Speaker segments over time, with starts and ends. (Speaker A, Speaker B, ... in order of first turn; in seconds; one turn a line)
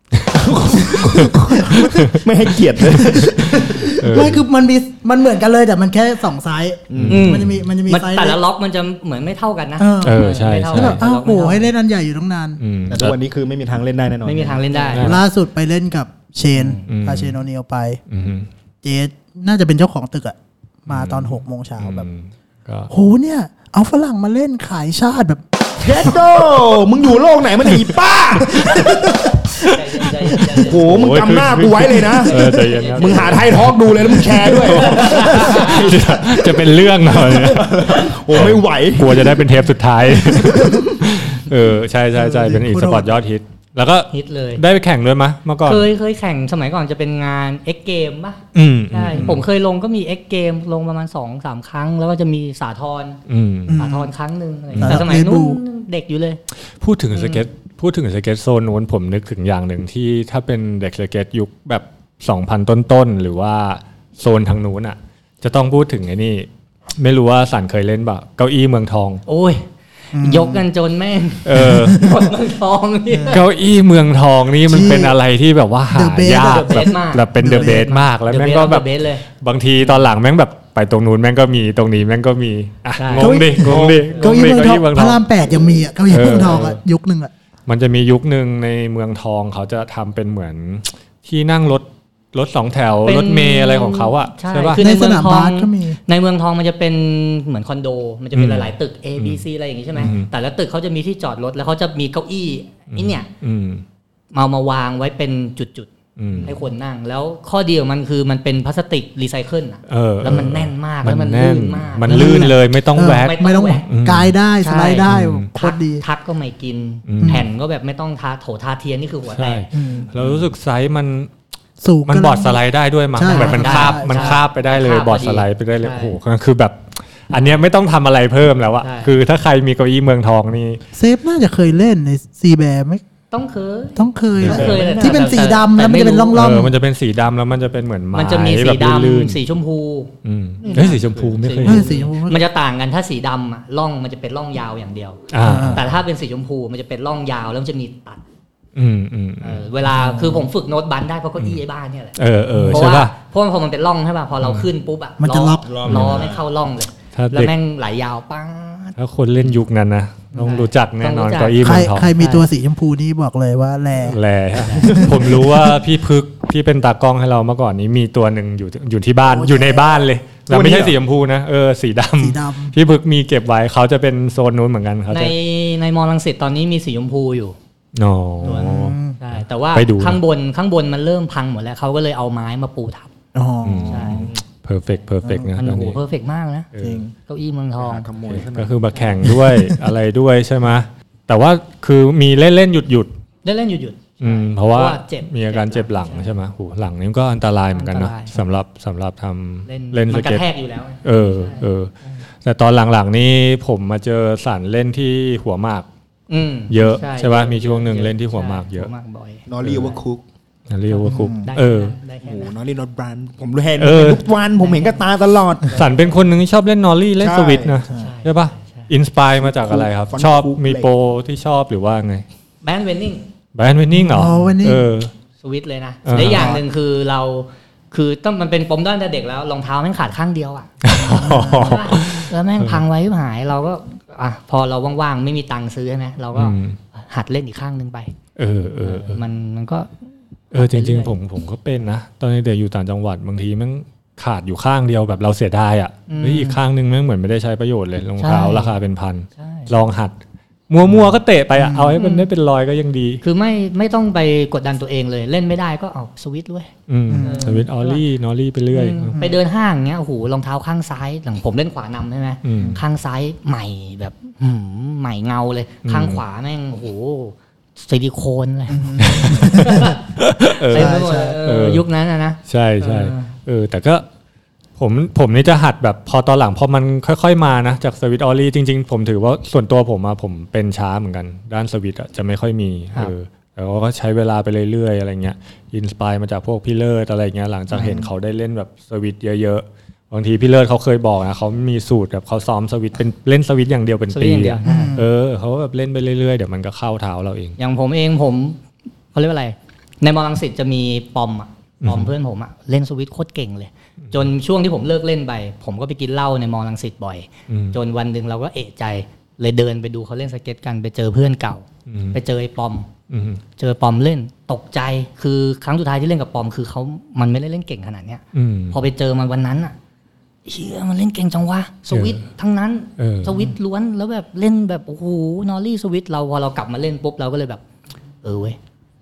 Speaker A: 0.3-4.3
Speaker B: 0.6-1.9
Speaker C: 1.1-2.2
Speaker C: 2.9-4.4
Speaker B: 3.5-8.4
Speaker A: 6.9-7.3
Speaker C: 6.9-7.5
Speaker D: 7.1-11.7
Speaker B: 9.8-12.6
Speaker C: 10.0-11.0
Speaker C: 12.6-13.2
Speaker A: 12.9-15.0
Speaker D: 14.2-15.2
Speaker C: 14.9-15.2
Speaker B: 15.0-18.0
Speaker D: 16.6-16.9
Speaker C: 16.9-17.4
Speaker C: 18.1-18.5
Speaker B: 18.8-22.1
Speaker C: 20.9-22.9
Speaker B: 22.9-26.2
Speaker A: 25.8-29.4
Speaker D: 29.6-30.9
Speaker A: 30.2-39.4
Speaker C: 30.7-45.9
Speaker D: 32.2-33.5
Speaker D: 34.6-35.9
Speaker A: 40.1-41.0
Speaker B: 42.1-43.2
Speaker D: 44.1-44.6
Speaker D: 45.6-53.2
Speaker C: 48.5-49.4
Speaker C: 53.3-53.9
Speaker B: 53.7-54.1
Speaker D: 53.7-56.4
Speaker C: 54.7-55.1
Speaker B: 54.8-55.6
Speaker C: 56.8-69.2
Speaker D: 57.1-57.5
Speaker D: 69.3-73.4
Speaker B: 70.1-70.7
Speaker C: 71.5-72.1
Speaker B: 71.6-72.2
Speaker B: 73.1-73.4
Speaker C: 73.3-85.2
Speaker B: 74.7-75.2
Speaker B: 75.9-78.0
Speaker D: 76.3-79.3
Speaker D: 79.8-80.1
Speaker D: 83.0-83.4
Speaker B: 83.2-87.3
Speaker A: 83.6-84.1
Speaker C: 86.1-86.8
Speaker C: 87.7-94.8
Speaker D: 93.0-103.3
Speaker B: 94.8-96.0
Speaker C: 98.3-99.4
Speaker C: 100.0-100.3
Speaker C: 102.9-103.8
Speaker D: 104.3-105.9
Speaker C: 106.2-106.6
Speaker D: 106.4-112.5
Speaker C: 109.9-114.3
Speaker B: 112.1-116.0
Speaker D: 113.1-113.8
Speaker D: 114.6-119.7
Speaker C: 115.1-115.5
Speaker C: 117.1-117.5
Speaker B: 117.2-117.5
Speaker C: 119.3-121.3
Speaker B: 119.7-120.1
Speaker B: 121.8-122.6
Speaker C: 122.1-130.8
Speaker B: 123.1-124.4
Speaker D: 123.2-126.2
Speaker D: 127.3-127.6
Speaker D: 128.8-129.1
Speaker B: 130.9-133.0
Speaker D: 133.3-136.4
Speaker B: 134.0-136.8
Speaker C: 134.4-134.8
Speaker A: 134.4-135.5
Speaker C: 136.3-139.4
Speaker D: 138.1-140.1
Speaker C: 140.2-141.9
Speaker A: 140.6-141.9
Speaker D: 140.6-148.2
Speaker B: 141.6-142.4
Speaker C: 145.3-145.9
Speaker B: 145.4-145.8
Speaker C: 148.8-149.7
Speaker D: 149.4-152.2
Speaker B: 149.9-150.5
Speaker C: 152.2-153.1
Speaker B: 152.5-152.9
Speaker D: 152.7-159.0
Speaker B: 155.2-155.7
Speaker A: 155.6-156.4
Speaker C: 155.8-156.3
Speaker C: 157.1-157.5
Speaker C: 159.0-162.1
Speaker D: 160.3-162.5
Speaker B: 161.6-164.2
Speaker C: 164.0-175.3
Speaker D: 164.6-165.1
Speaker B: 164.8-165.3
Speaker B: 169.2-170.1
Speaker A: 170.5-170.9
Speaker B: 172.2-172.7
Speaker D: 175.1-177.6
Speaker C: 177.9-179.0
Speaker B: 178.4-179.2
Speaker D: 178.4-183.1
Speaker C: 179.7-180.2
Speaker B: 183.3-184.3
Speaker C: 183.6-186.0
Speaker D: 183.9-184.3
Speaker A: 184.1-184.4
Speaker B: 185.2-185.5
Speaker D: 185.6-186.7
Speaker C: 186.7-187.0
Speaker B: 186.8-187.1
Speaker D: 187.3-188.1
Speaker A: 187.8-188.8
Speaker C: 188.3-193.1
Speaker D: 193.4-196.3
Speaker C: 194.2-200.4
Speaker D: 197.7-198.4
Speaker D: 199.7-202.2
Speaker C: 201.0-201.9
Speaker C: 202.4-205.9
Speaker D: 206.3-210.0
Speaker C: 206.7-208.9
Speaker A: 209.5-210.2
Speaker C: 209.6-209.9
Speaker C: 210.7-212.0
Speaker D: 210.9-212.5
Speaker B: 211.1-211.5
Speaker A: 212.2-215.8
Speaker C: 213.8-214.2
Speaker D: 214.6-215.0
Speaker D: 215.7-216.1
Speaker C: 215.7-222.3
Speaker A: 217.2-217.8
Speaker D: 217.9-218.9
Speaker A: 219.4-220.9
Speaker D: 222.6-223.3
Speaker C: 223.6-225.1
Speaker B: 223.9-224.9
Speaker D: 225.4-230.7
Speaker C: 226.1-226.6
Speaker B: 226.2-226.6
Speaker C: 230.8-232.8
Speaker B: 230.9-231.9
Speaker D: 231.5-238.1
Speaker C: 236.3-236.8
Speaker C: 238.4-239.2
Speaker D: 238.8-239.9
Speaker D: 240.5-241.2
Speaker C: 240.5-250.1
Speaker D: 246.1-246.6
Speaker D: 248.2-248.8
Speaker D: 249.4-249.7
Speaker C: 250.7-253.2
Speaker B: 251.6-252.0
Speaker D: 252.0-252.3
Speaker D: 253.2-258.0
Speaker C: 256.9-259.2
Speaker B: 257.1-257.6
Speaker D: 258.7-270.0
Speaker C: 262.4-262.8
Speaker B: 262.6-262.8
Speaker C: 265.9-266.2
Speaker B: 268.7-269.9
Speaker C: 269.0-271.9
Speaker D: 270.7-273.3
Speaker B: 270.7-271.4
Speaker C: 272.5-274.1
Speaker C: 274.8-297.6
Speaker B: 287.8-288.0
Speaker D: 294.1-295.0
Speaker B: 294.6-295.1
Speaker D: 297.6-298.6
Speaker D: 299.1-312.9
Speaker C: 301.8-302.1
Speaker C: 307.5-307.8
Speaker C: 311.9-312.2
Speaker C: 313.1-313.4
Speaker D: 313.6-319.8
Speaker C: 318.3-318.8
Speaker D: 320.5-327.6
Speaker C: 321.9-322.2
Speaker C: 323.0-323.4
Speaker D: 328.2-328.6